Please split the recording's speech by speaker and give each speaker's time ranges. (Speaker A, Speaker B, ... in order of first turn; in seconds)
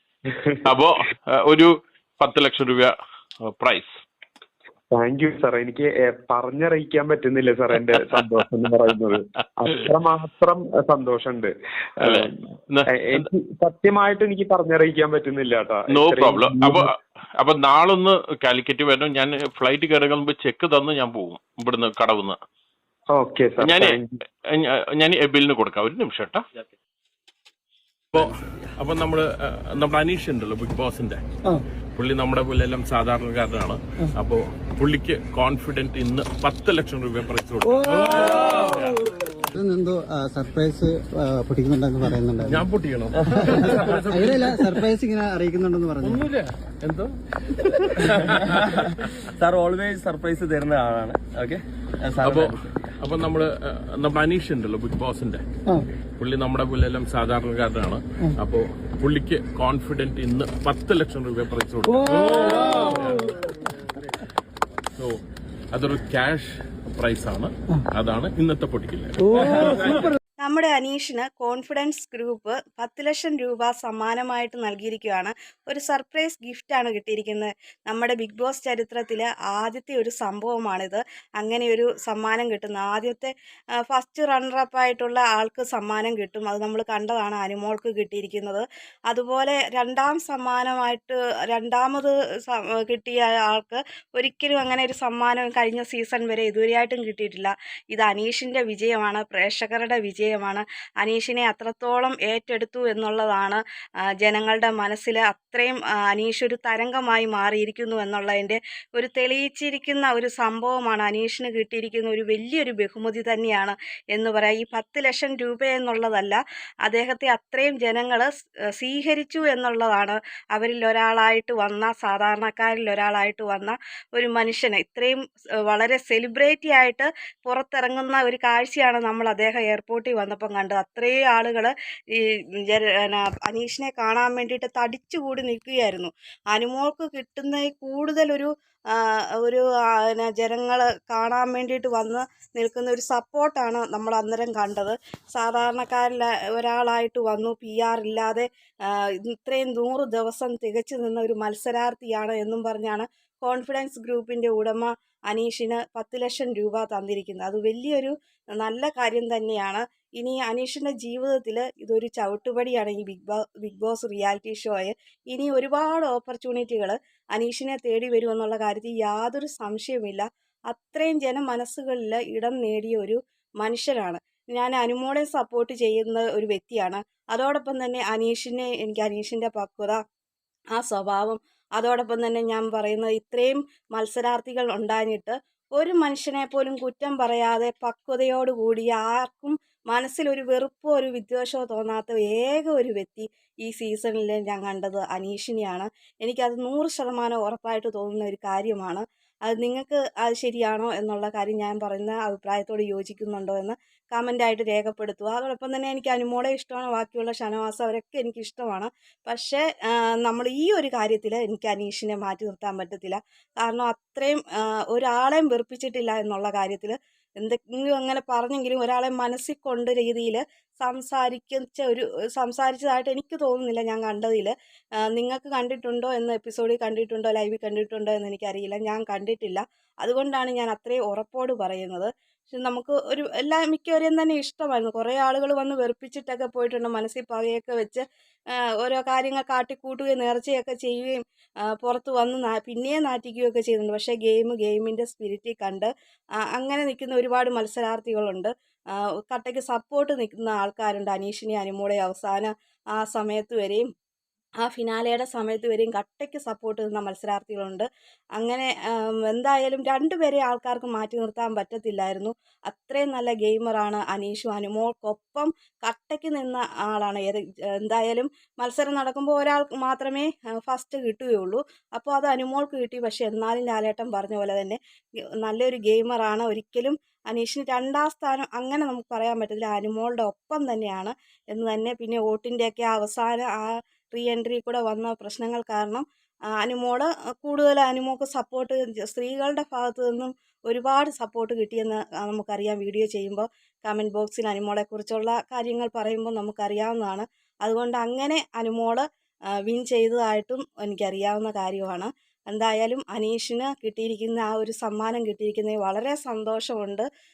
Speaker A: 0.6-1.7, 2.2-2.9, 3.4-3.9, 12.0-13.3, 15.9-16.8, 17.4-22.4, 23.6-24.0, 24.5-26.4, 28.1-31.2, 31.9-39.0, 42.4-44.9, 46.0-49.1, 52.2-55.4, 56.2-63.5, 65.7-70.1
Speaker B: 4.9-12.3, 12.8-16.9, 23.1-24.1
Speaker C: 37.6-38.1, 39.5-42.6, 43.5-46.2, 62.1-62.7, 69.3-69.9
Speaker D: 48.1-52.9
Speaker E: 70.4-83.3, 83.9-103.6, 104.2-180.0, 180.7-224.5, 225.1-238.0, 238.8-241.2, 241.8-245.9, 246.5-248.5, 249.3-253.9, 254.6-257.9, 258.4-274.8, 275.4-286.0, 286.6-299.0, 299.6-307.1